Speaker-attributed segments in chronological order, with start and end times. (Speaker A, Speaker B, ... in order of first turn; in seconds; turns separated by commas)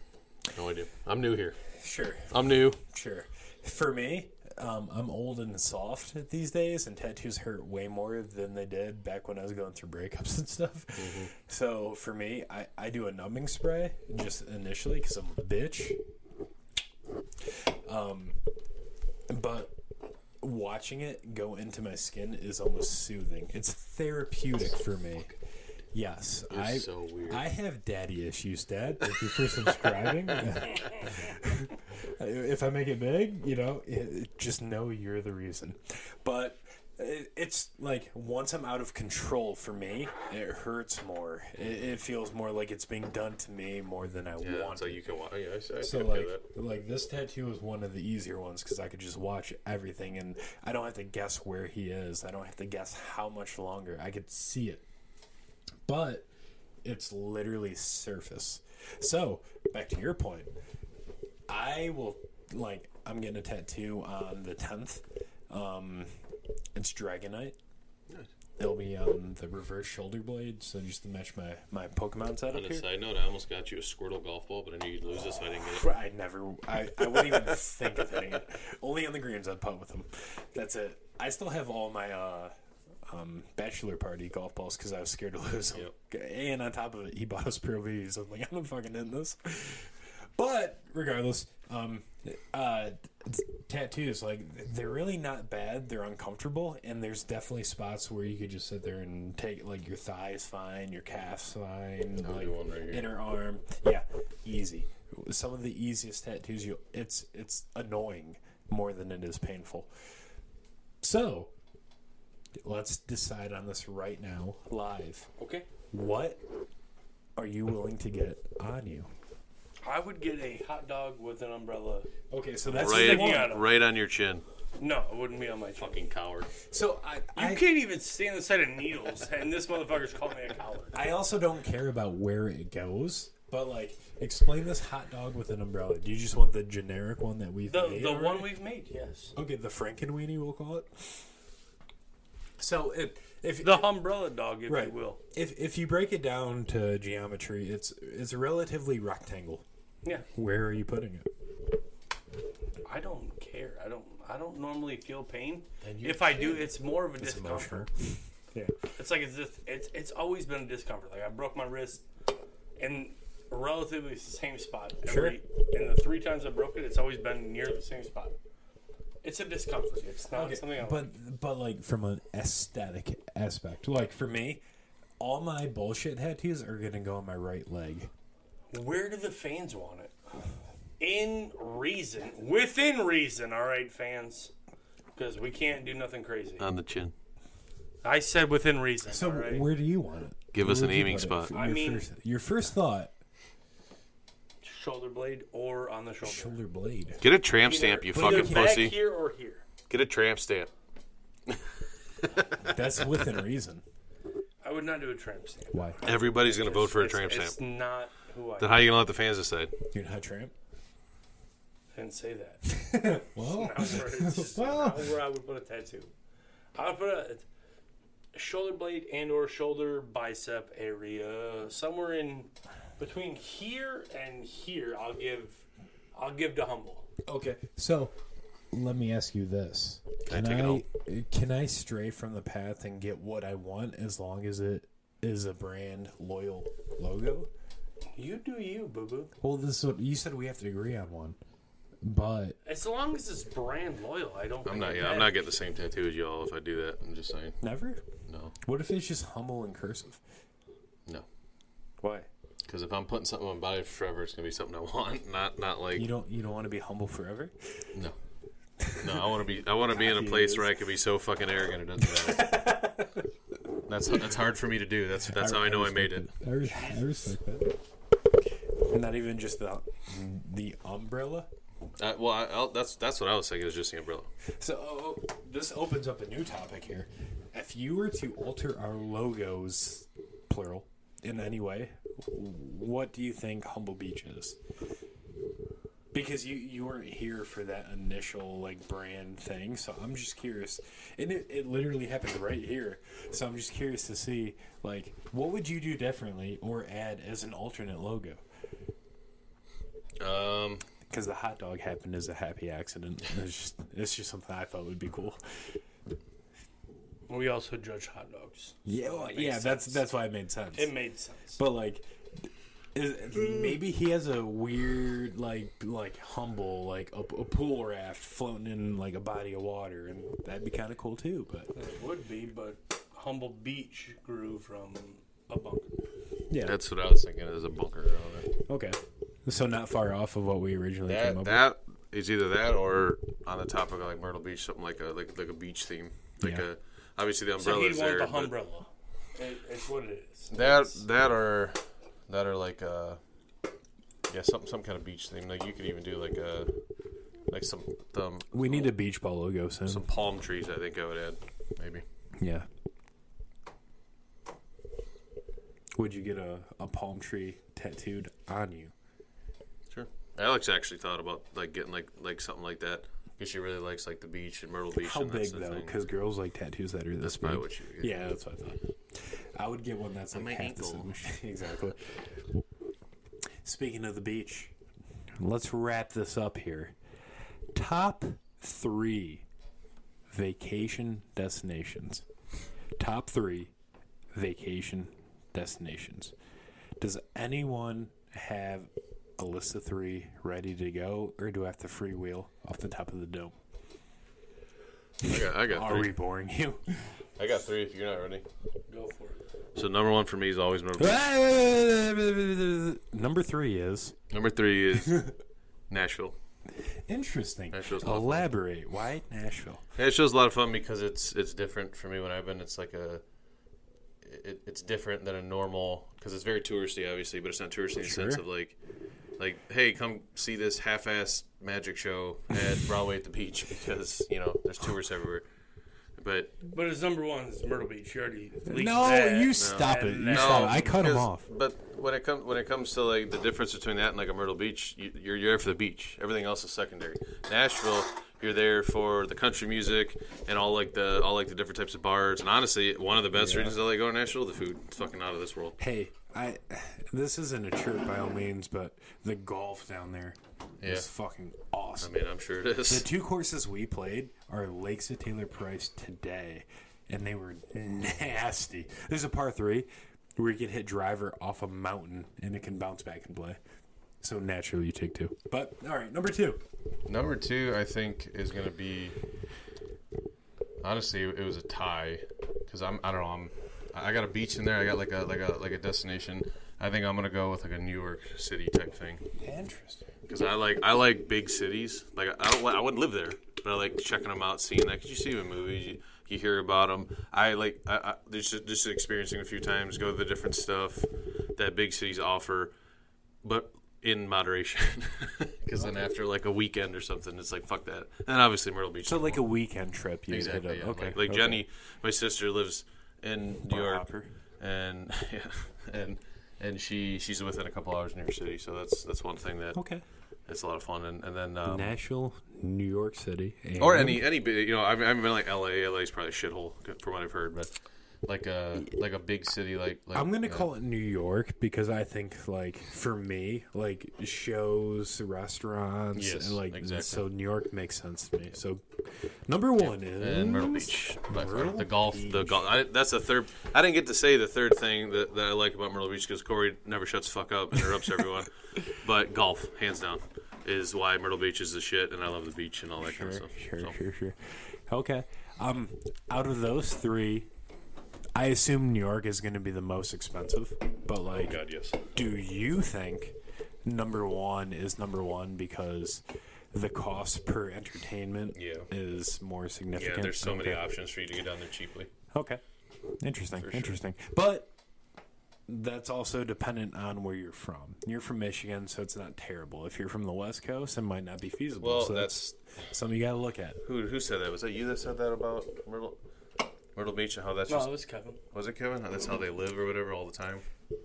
Speaker A: 0.5-1.6, Speaker B: 1.7-16.0, Speaker A: 2.3-2.8, Speaker A: 11.0-11.3, Speaker B: 17.4-18.4, Speaker B: 19.3-19.7, Speaker B: 20.4-25.3, Speaker B: 25.9-45.0, Speaker A: 26.5-27.4, Speaker A: 29.6-30.5, Speaker A: 44.4-46.4, Speaker B: 45.8-54.8, Speaker B: 55.9-56.3, Speaker B: 56.8-60.5, Speaker B: 61.5-66.1, Speaker B: 66.7-67.6, Speaker B: 68.6-72.8, Speaker A: 72.5-75.9, Speaker B: 75.3-82.5, Speaker B: 83.0-109.9, Speaker A: 102.2-103.2, Speaker B: 111.0-111.5, Speaker B: 112.6-115.3, Speaker C: 115.4-115.7, Speaker B: 115.9-116.4, Speaker B: 117.3-119.1, Speaker C: 119.8-122.1, Speaker B: 122.3-123.6, Speaker A: 122.7-124.4, Speaker C: 122.8-123.7, Speaker C: 124.8-126.0, Speaker A: 125.8-126.5, Speaker B: 126.6-127.7, Speaker C: 127.3-131.0, Speaker B: 130.9-138.5, Speaker C: 137.7-139.3, Speaker B: 139.3-141.2, Speaker B: 142.6-143.9, Speaker C: 143.6-145.2, Speaker B: 144.7-149.6, Speaker B: 150.2-151.3, Speaker C: 152.8-157.9, Speaker B: 155.8-158.8, Speaker C: 158.9-162.0, Speaker C: 162.8-168.3, Speaker B: 165.1-165.4, Speaker C: 169.2-171.1, Speaker B: 170.3-174.6, Speaker B: 175.2-178.1, Speaker C: 178.7-180.2, Speaker C: 181.0-184.5, Speaker C: 185.1-186.7, Speaker A: 186.6-187.1, Speaker C: 188.0-189.7, Speaker B: 189.1-193.1, Speaker A: 190.5-191.5, Speaker C: 191.5-192.1, Speaker C: 194.6-196.6, Speaker B: 196.2-197.2, Speaker A: 197.2-198.9, Speaker C: 197.6-199.6, Speaker B: 198.1-198.8, Speaker A: 199.9-200.7, Speaker A: 202.2-202.7, Speaker B: 202.6-203.8, Speaker C: 204.6-208.9, Speaker B: 205.7-206.0, Speaker A: 206.0-207.6, Speaker A: 208.6-209.7, Speaker B: 209.9-210.5, Speaker C: 211.9-216.1, Speaker B: 212.7-215.1, Speaker C: 216.7-217.4, Speaker C: 218.3-227.1, Speaker B: 227.2-228.1, Speaker B: 228.7-237.5, Speaker A: 230.2-230.8, Speaker C: 238.2-239.3, Speaker B: 239.4-241.4, Speaker B: 242.0-242.6, Speaker C: 242.6-245.4, Speaker A: 244.6-247.6, Speaker B: 247.6-248.0, Speaker A: 248.3-248.5, Speaker B: 248.6-250.2, Speaker B: 252.0-252.3, Speaker A: 252.7-256.1, Speaker B: 255.9-257.5, Speaker B: 258.8-259.3, Speaker A: 259.0-262.6, Speaker B: 259.9-260.7, Speaker B: 262.0-263.2, Speaker A: 263.9-266.3, Speaker B: 265.3-267.8, Speaker C: 266.6-267.2, Speaker B: 268.9-271.5, Speaker A: 272.0-274.3, Speaker B: 274.6-284.6, Speaker B: 286.1-298.4, Speaker A: 300.2-300.8, Speaker B: 301.1-305.4, Speaker C: 307.3-310.1, Speaker B: 308.8-310.9, Speaker C: 310.7-311.6, Speaker B: 311.6-321.7, Speaker C: 321.7-325.9, Speaker B: 326.5-326.8, Speaker A: 326.6-328.5, Speaker B: 328.6-331.6, Speaker A: 331.1-338.5, Speaker B: 336.4-336.7, Speaker C: 337.6-341.0, Speaker A: 340.5-343.2, Speaker A: 344.3-346.7, Speaker A: 347.5-348.9, Speaker B: 348.5-350.1, Speaker A: 349.9-352.0, Speaker B: 352.4-352.7, Speaker B: 355.9-358.9, Speaker A: 359.9-366.0, Speaker B: 365.0-372.2, Speaker A: 367.2-368.3, Speaker A: 370.3-371.3, Speaker B: 373.6-374.7, Speaker B: 375.4-376.9, Speaker B: 377.7-379.4, Speaker B: 380.3-382.2, Speaker B: 383.0-383.7, Speaker B: 384.3-386.3, Speaker B: 387.0-393.5, Speaker A: 395.2-396.1, Speaker B: 395.2-397.1, Speaker A: 397.4-398.4, Speaker C: 398.9-399.4, Speaker A: 399.7-401.2, Speaker B: 401.0-404.1, Speaker A: 404.3-405.3, Speaker A: 405.9-406.4, Speaker B: 407.1-409.8, Speaker A: 407.7-408.5, Speaker A: 410.0-413.2, Speaker A: 414.2-418.8, Speaker B: 418.0-418.4, Speaker A: 419.4-425.4, Speaker A: 426.2-426.5, Speaker C: 426.7-430.9, Speaker B: 428.6-431.4, Speaker A: 429.6-445.8, Speaker B: 443.3-443.8, Speaker B: 445.8-452.1, Speaker A: 450.8-451.1, Speaker A: 452.0-453.1, Speaker B: 452.9-463.6, Speaker B: 464.2-466.6, Speaker A: 467.1-469.2, Speaker A: 470.8-479.2, Speaker B: 479.4-480.0, Speaker A: 480.3-492.7, Speaker A: 493.4-499.4, Speaker B: 499.0-501.6, Speaker A: 500.3-504.1, Speaker B: 503.7-504.3, Speaker A: 504.6-509.8, Speaker B: 509.7-510.0, Speaker A: 510.5-511.9, Speaker B: 511.6-514.2, Speaker A: 513.8-517.7, Speaker A: 518.2-520.7, Speaker B: 520.1-532.7, Speaker A: 526.1-527.2, Speaker A: 529.8-543.9, Speaker B: 543.0-547.5, Speaker B: 548.3-551.6, Speaker A: 551.3-552.0, Speaker B: 552.1-560.8, Speaker A: 558.5-558.9, Speaker A: 559.9-562.1, Speaker B: 562.3-562.6, Speaker B: 563.2-564.7, Speaker A: 563.6-564.0, Speaker B: 565.7-573.8, Speaker A: 571.8-572.5, Speaker A: 573.8-576.2, Speaker A: 576.9-577.9, Speaker C: 577.7-578.4, Speaker A: 578.5-580.6